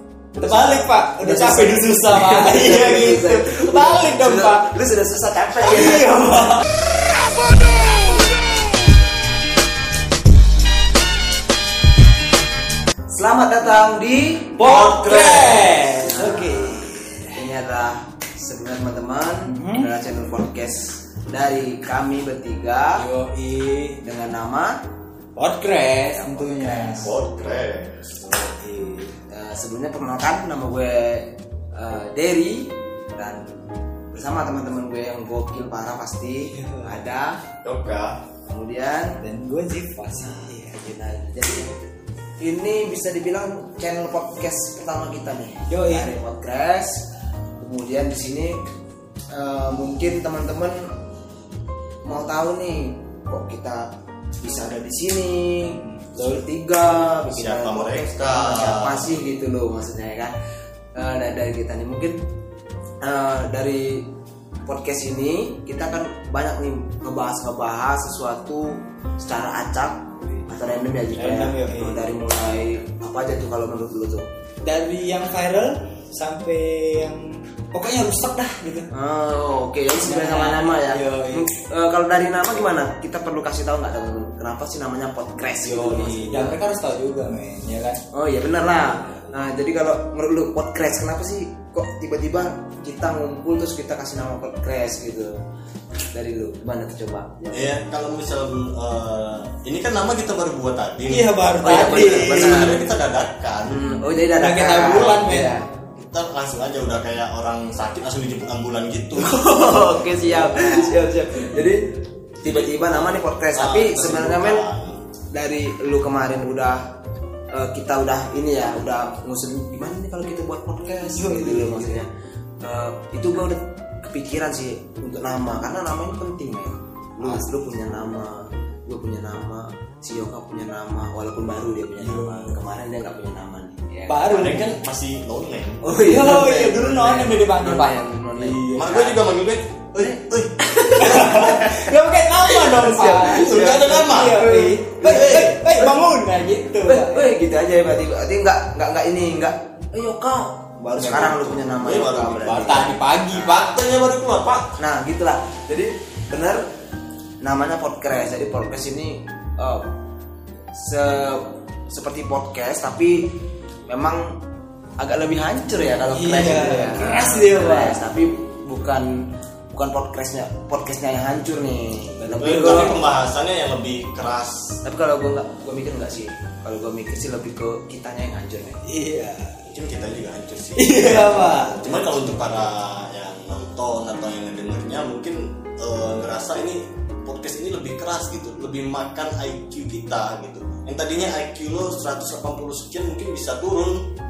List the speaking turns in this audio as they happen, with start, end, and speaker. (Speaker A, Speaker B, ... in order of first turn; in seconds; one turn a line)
Speaker A: 0.3-4.7
Speaker B: 0.4-6.4
Speaker A: 5.6-6.7
Speaker A: 7.7-8.3
Speaker B: 13.1-14.7
Speaker A: 14.6-17.4
Speaker C: 14.6-15.9
Speaker B: 15.9-23.0
Speaker A: 19.5-19.9
Speaker A: 23.0-24.0
Speaker B: 24.0-24.8
Speaker A: 25.4-27.2
Speaker B: 25.9-27.1
Speaker C: 27.0-28.5
Speaker A: 28.5-29.1
Speaker B: 29.3-33.5
Speaker B: 34.1-37.4
Speaker A: 36.5-37.0
Speaker C: 37.6-38.2
Speaker B: 38.5-39.2
Speaker A: 39.2-40.9
Speaker B: 40.2-41.7
Speaker B: 42.4-47.0
Speaker A: 45.7-46.1
Speaker B: 47.6-48.6
Speaker B: 49.3-50.9
Speaker B: 52.0-53.9
Speaker B: 54.4-60.3
Speaker A: 55.8-56.4
Speaker C: 57.3-59.2
Speaker B: 60.9-62.2
Speaker B: 63.0-64.1
Speaker B: 64.6-74.2
Speaker A: 71.1-72.1
Speaker A: 74.6-78.9
Speaker B: 78.9-86.6
Speaker A: 80.0-81.5
Speaker A: 85.6-88.0
Speaker B: 88.1-95.4
Speaker A: 88.8-89.3
Speaker B: 96.1-97.7
Speaker C: 97.5-103.8
Speaker A: 101.1-102.8
Speaker B: 101.6-102.8
Speaker B: 103.6-105.6
Speaker A: 104.3-105.6
Speaker C: 104.8-105.3
Speaker C: 105.9-109.5
Speaker A: 109.2-111.7
Speaker B: 109.4-111.9
Speaker B: 112.4-114.6
Speaker C: 112.5-115.0
Speaker B: 115.3-116.9
Speaker B: 117.5-122.1
Speaker A: 120.9-122.0
Speaker B: 122.6-134.6
Speaker C: 132.0-132.5
Speaker A: 134.1-134.8
Speaker C: 134.3-135.8
Speaker B: 135.8-139.2
Speaker A: 135.9-139.0
Speaker C: 138.7-141.5
Speaker B: 140.0-141.9
Speaker A: 140.9-147.4
Speaker B: 142.4-143.8
Speaker C: 143.2-145.7
Speaker B: 144.4-145.2
Speaker B: 146.8-152.9
Speaker A: 151.0-151.5
Speaker C: 151.2-154.8
Speaker A: 152.4-153.8
Speaker B: 154.8-156.6
Speaker B: 157.4-159.9
Speaker B: 160.7-163.3
Speaker B: 163.9-164.4
Speaker B: 165.0-169.2
Speaker A: 166.1-168.0
Speaker B: 169.7-173.0
Speaker A: 172.2-172.9
Speaker C: 172.4-174.8
Speaker B: 174.8-178.8
Speaker A: 178.9-179.7
Speaker C: 179.7-194.1
Speaker A: 180.8-181.8